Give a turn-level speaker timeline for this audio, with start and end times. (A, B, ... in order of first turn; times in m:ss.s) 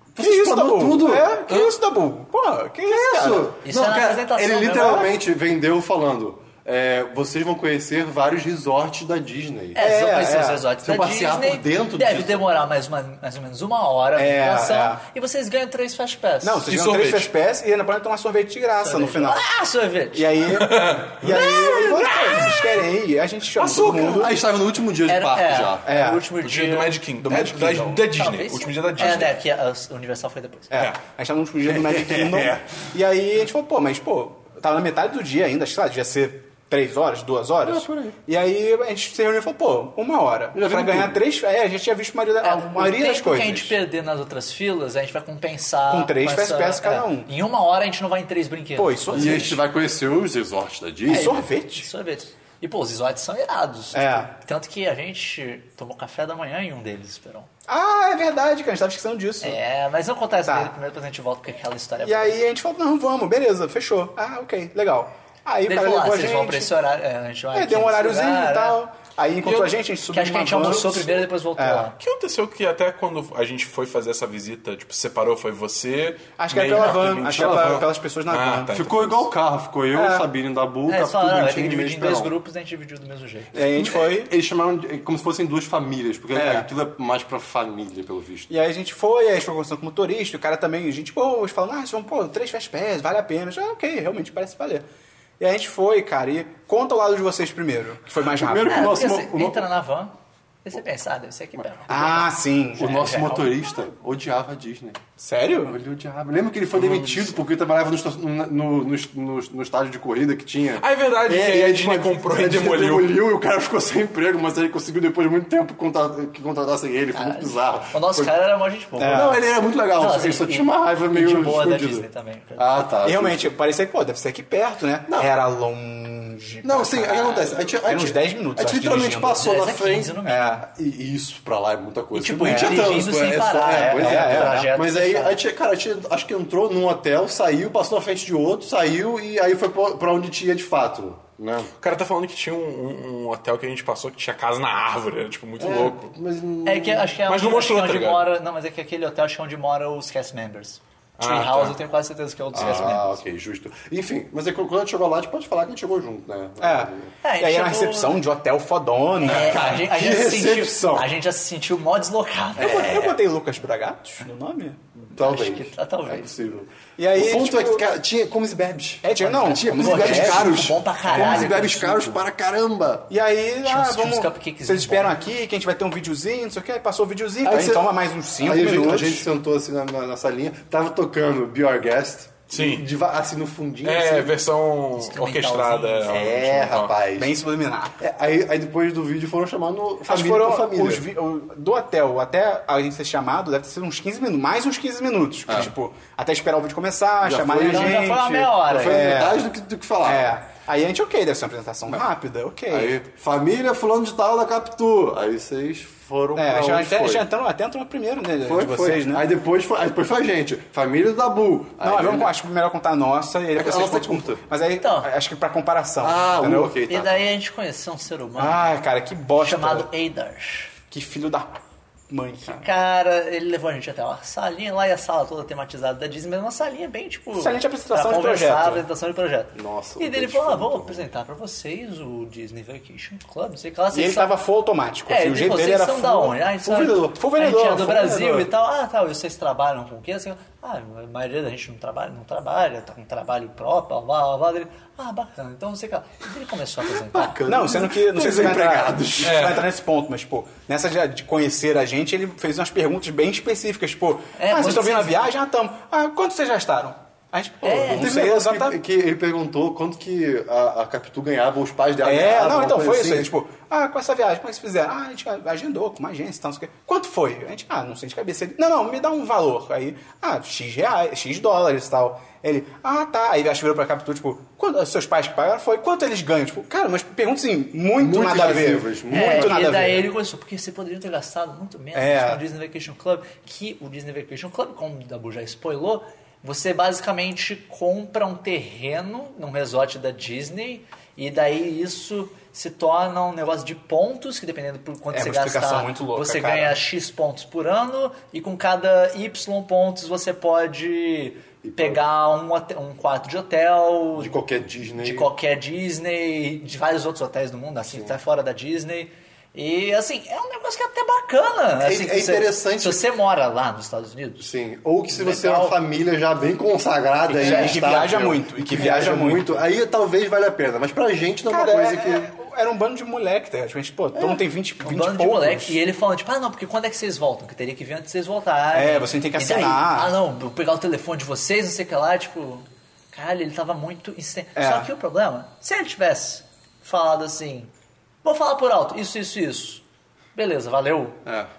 0:00.1-0:01.3 A
0:00.2-0:03.5 B
0:01.5-0:01.7 C
0:02.9-0:09.8 A
0:03.6-0:05.1 D
0:04.8-0:05.1 B
0:09.7-0:16.7 D
0:09.8-0:10.6 B
0:10.8-0:12.5 A
0:14.2-0:15.0 B
0:16.4-0:19.4 B
0:16.7-0:17.3 C
0:18.8-0:20.4 D
0:20.1-0:24.4 B
0:20.5-0:22.4 C
0:21.7-0:22.2 D
0:23.6-0:24.2 C
0:23.7-0:25.9 A
0:25.1-0:27.0 D
0:25.8-0:26.2 B
0:26.4-0:29.4 C
0:27.2-0:28.0 B
0:28.1-0:30.8 D
0:30.7-0:43.8 B
0:31.7-0:32.6 A
0:37.6-0:38.2 A
0:40.5-0:41.2 A
0:42.4-0:49.6 D
0:45.9-0:47.3 B
0:48.8-0:49.6 B
0:49.1-0:51.5 A
0:51.1-0:51.9 B
0:51.1-0:57.5 D
0:53.9-0:54.3 B
0:57.7-0:59.6 B
0:59.4-1:02.4 D
1:00.4-1:00.7 B
1:02.0-1:06.7 B
1:05.6-1:08.8 D
1:07.5-1:11.9 B
1:09.4-1:09.8 C
1:10.1-1:12.0 D
1:12.0-1:19.2 C
1:16.4-1:18.9 B
1:16.7-1:17.8 A
1:18.7-1:22.3 A
1:19.9-1:20.2 B
1:20.9-1:23.6 D
1:23.5-1:24.3 B
1:23.7-1:28.5 A
1:26.3-1:26.7 B
1:28.5-1:34.8 B
1:35.4-1:39.0 B
1:38.3-1:39.6 A
1:38.7-1:40.1 D
1:40.6-1:43.4 D
1:41.9-1:43.4 B
1:42.8-1:45.0 A
1:45.2-1:45.8 B
1:45.6-1:58.3 A
1:46.7-1:47.4 C
1:50.8-1:53.2 C
1:57.1-1:59.4 D
1:59.0-1:59.4 B
1:59.0-2:03.5 A
1:59.9-2:02.8 D
2:03.0-2:09.5 B
2:06.6-2:21.7 A
2:09.3-2:10.6 D
2:10.2-2:10.6 B
2:12.1-2:15.4 D
2:12.4-2:13.0 B
2:13.9-2:14.7 B
2:21.8-2:26.1 C
2:25.6-2:27.1 A
2:26.6-2:33.2 D
2:27.3-2:28.3 C
2:31.2-2:31.8 C
2:32.5-2:37.1 A
2:36.6-2:39.7 B
2:37.2-2:38.2 D
2:39.2-2:43.0 D
2:39.2-2:41.1 A
2:42.6-2:43.2 A
2:42.6-2:44.8 B
2:45.0-2:53.1 A
2:45.1-2:46.4 D
2:47.0-2:47.8 B
2:49.0-2:51.6 B
2:49.2-2:52.2 D
2:53.1-2:59.2 B
2:53.6-2:55.2 D
2:57.4-2:57.9 A
2:58.4-3:04.3 A
3:02.5-3:02.9 C
3:03.8-3:06.9 C
3:05.0-3:06.3 D
3:06.1-3:07.3 A
3:07.2-3:08.0 B
3:08.0-3:11.0 A
3:10.0-3:19.4 B
3:17.2-3:20.3 A
3:17.6-3:19.2 D
3:20.0-3:23.0 B
3:22.7-3:27.2 A
3:26.4-3:29.2 B
3:28.4-3:32.3 A
3:31.8-3:36.8 B
3:33.6-3:34.4 A
3:34.8-3:35.1 D
3:36.0-3:37.3 A
3:36.9-3:38.8 D
3:38.4-3:39.9 B
3:39.4-3:40.7 D
3:40.9-3:42.6 B
3:42.4-3:54.3 D
3:47.4-3:48.8 B
3:49.5-3:51.1 A
3:53.9-3:56.4 B
3:55.1-4:07.4 D
3:56.6-3:58.5 A
3:57.1-3:58.3 B
4:07.0-4:09.6 A
4:07.4-4:18.8 B
4:09.2-4:09.6 C
4:14.4-4:15.3 D
4:17.6-4:18.2 D
4:17.7-4:23.3 A
4:22.0-4:40.1 B
4:38.0-4:39.8 A
4:39.1-5:04.4 D
4:41.9-4:42.4 B
4:55.1-4:56.8 B
5:01.6-5:02.0 A
5:04.2-5:05.3 A
5:05.0-5:14.5 D
5:07.9-5:08.1 A
5:11.8-5:13.0 A
5:14.4-5:22.3 A
5:15.1-5:15.8 D
5:17.3-5:19.6 B
5:17.4-5:17.8 D
5:21.5-5:25.8 B
5:24.1-5:24.4 A
5:24.8-5:37.7 D
5:28.7-5:30.1 B
5:34.6-5:34.9 B
5:38.2-5:39.8 D
5:40.3-5:41.2 D